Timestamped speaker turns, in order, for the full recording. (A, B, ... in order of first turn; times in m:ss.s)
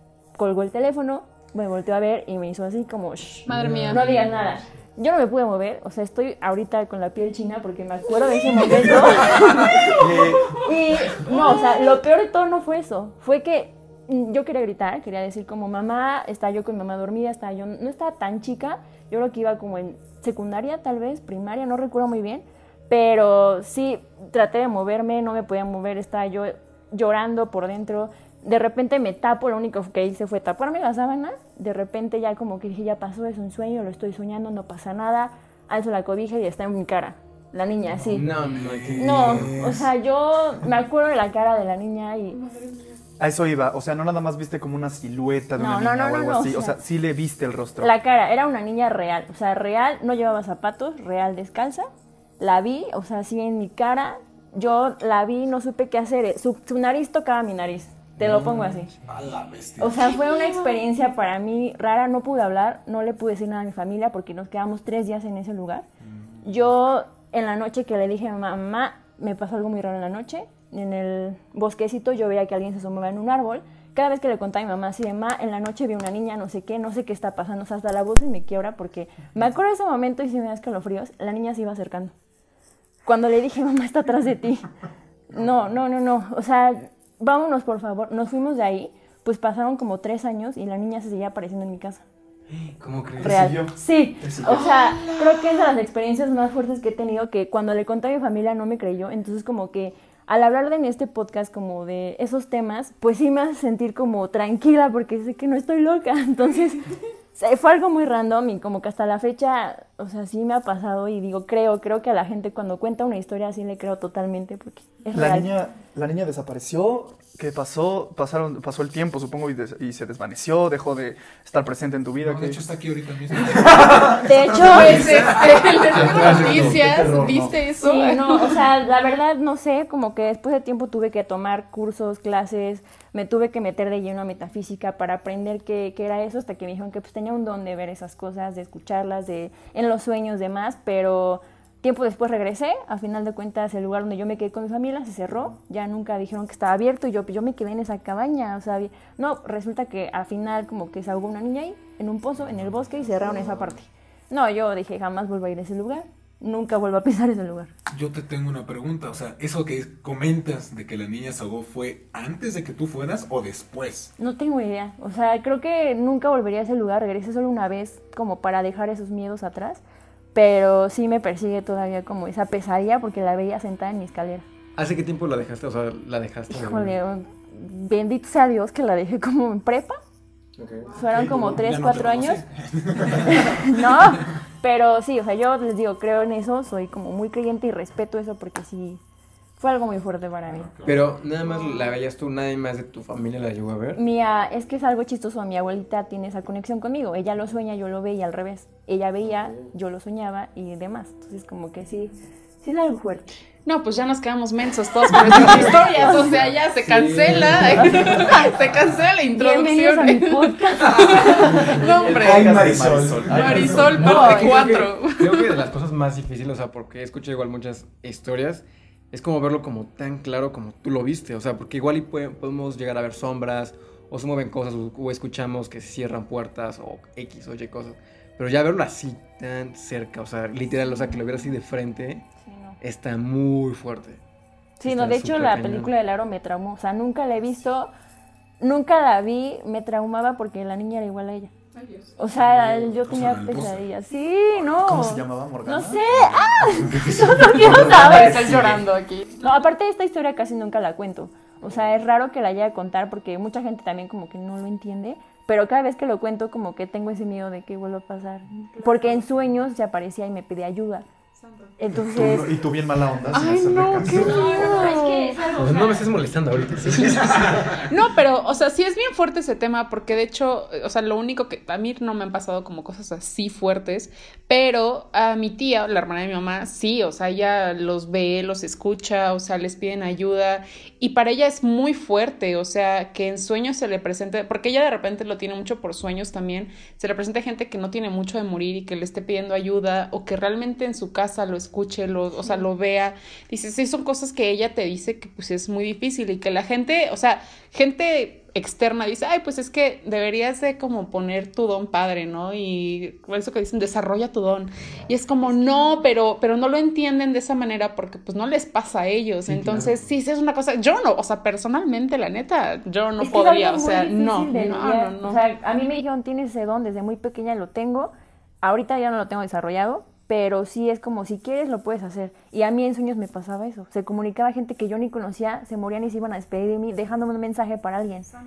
0:00.4-0:38.3 A
0:03.5-0:04.0 B
0:03.5-0:04.6 C
0:09.8-0:10.6 D
0:09.8-0:11.6 B
0:37.9-0:39.9 E
0:38.1-0:39.6 C
0:39.0-0:42.4 A
0:43.2-0:47.9 D
0:45.6-0:46.8 A
0:47.8-0:51.9 A
0:52.4-0:58.9 A
0:58.2-1:00.1 E
0:59.8-1:05.9 A
1:06.1-1:06.6 E
1:06.4-1:22.1 A
1:23.0-1:24.7 A
1:25.3-1:32.0 A
1:32.5-1:33.5 C
1:33.2-1:34.7 D
1:33.2-1:55.5 A
1:34.5-1:35.4 B
1:55.1-2:02.6 D
2:02.2-2:06.8 E
2:04.2-2:05.3 A
2:04.6-2:08.6 B
2:06.0-2:06.8 C
2:06.0-2:07.6 D
2:07.8-2:37.7 A
2:37.9-2:44.1 E
2:44.2-2:49.8 A
2:50.3-2:54.4 A
2:54.8-2:57.0 C
2:56.5-3:00.0 A
3:00.6-3:00.9 C
3:00.9-3:02.4 A
3:01.0-3:04.3 E
3:03.3-3:09.0 A
3:09.6-3:10.7 A
3:10.5-3:11.3 E
3:10.8-3:14.0 C
3:14.0-3:23.4 A
3:23.7-3:32.7 B
3:25.3-3:29.0 E
3:25.3-3:26.3 A
3:27.8-3:28.5 A
3:29.4-3:31.7 A
3:31.0-3:34.1 E
3:31.6-3:31.9 C
3:31.6-3:34.1 D
3:33.2-3:35.5 B
3:33.9-3:52.3 C
3:34.0-3:34.6 A
3:52.4-3:52.8 A
3:52.8-3:54.2 C
3:54.8-3:57.9 A
3:54.8-3:55.9 C
3:58.6-4:01.5 A
4:01.7-4:02.1 B
4:02.2-4:08.5 A
4:02.7-4:03.9 E
4:04.7-4:08.8 D
4:06.4-4:07.8 E
4:07.7-4:09.4 B
4:09.4-4:21.1 A
4:18.8-4:19.2 B
4:21.4-4:21.7 B
4:21.8-4:22.5 A
4:21.9-4:25.0 D
4:23.3-4:25.5 B
4:24.1-4:26.0 A
4:25.5-4:27.9 C
4:27.0-4:27.2 B
4:27.0-4:27.8 E
4:27.9-5:15.4 B
5:09.5-5:09.9 C
5:13.2-5:28.3 A